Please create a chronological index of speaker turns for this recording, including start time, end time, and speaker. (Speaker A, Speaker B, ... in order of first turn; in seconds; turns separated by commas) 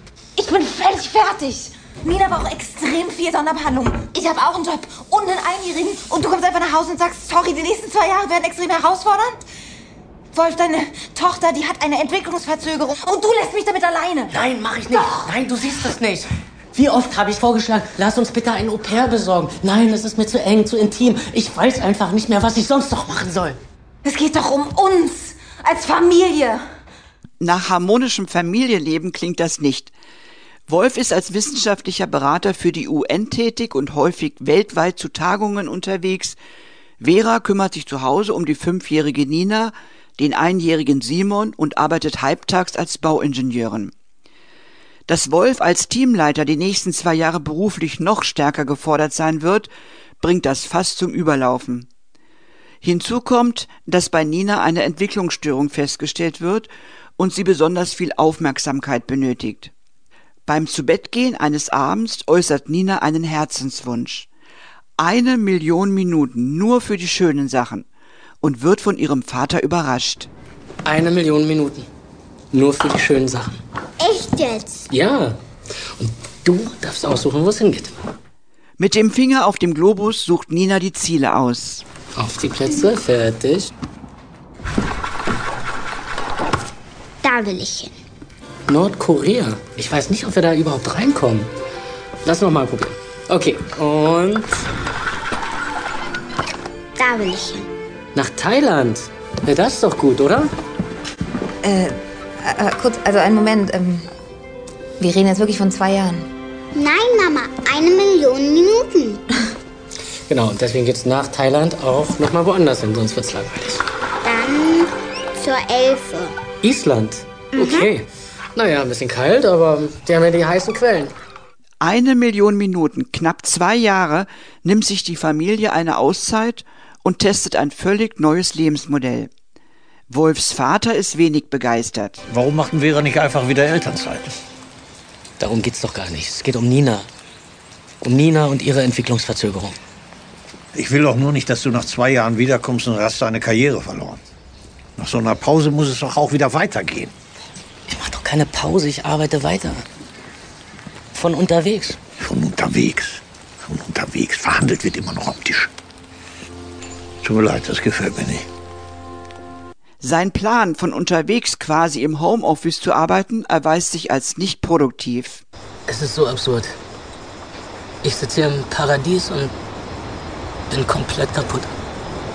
Speaker A: 0.4-9.4, Speaker A: 10.3-14.3, Speaker B: 14.3-23.6, Speaker A: 24.0-26.6, Speaker C: 27.4-29.9, Speaker C: 30.7-36.4, Speaker C: 37.0-43.9, Speaker C: 45.1-49.7, Speaker C: 50.2-51.9, Speaker C: 52.8-59.7, Speaker C: 60.5-64.3, Speaker C: 65.0-67.9, Speaker C: 68.4-70.3, Speaker B: 70.8-71.9, Speaker B: 72.5-73.6, Speaker D: 74.0-74.8, Speaker B: 74.9-75.4, Speaker B: 76.0-78.0, Speaker C: 78.8-81.8, Speaker B: 82.2-83.7, Speaker D: 87.2-87.9, Speaker B: 88.7-91.5, Speaker B: 92.2-94.5, Speaker D: 97.0-97.7, Speaker B: 98.2-100.5, Speaker A: 101.6-104.1, Speaker A: 105.0-106.3, Speaker D: 106.8-109.2, Speaker B: 110.3-113.8, Speaker D: 114.2-116.3, Speaker B: 116.6-121.2, Speaker D: 117.5-117.9, Speaker C: 121.8-129.3, Speaker C: 130.1-132.2, Speaker E: 132.3-134.3, Speaker B: 135.4-137.1, Speaker B: 138.0-139.8, Speaker E: 140.8-144.2, Speaker E: 145.0-147.1, Speaker B: 147.9-149.8, Speaker B: 151.1-152.0, Speaker E: 152.2-155.7, Speaker E: 157.2-158.5, Speaker C: 160.0-165.4, Speaker B: 165.9-166.8, Speaker B: 168.0-169.5, Speaker B: 170.7-171.7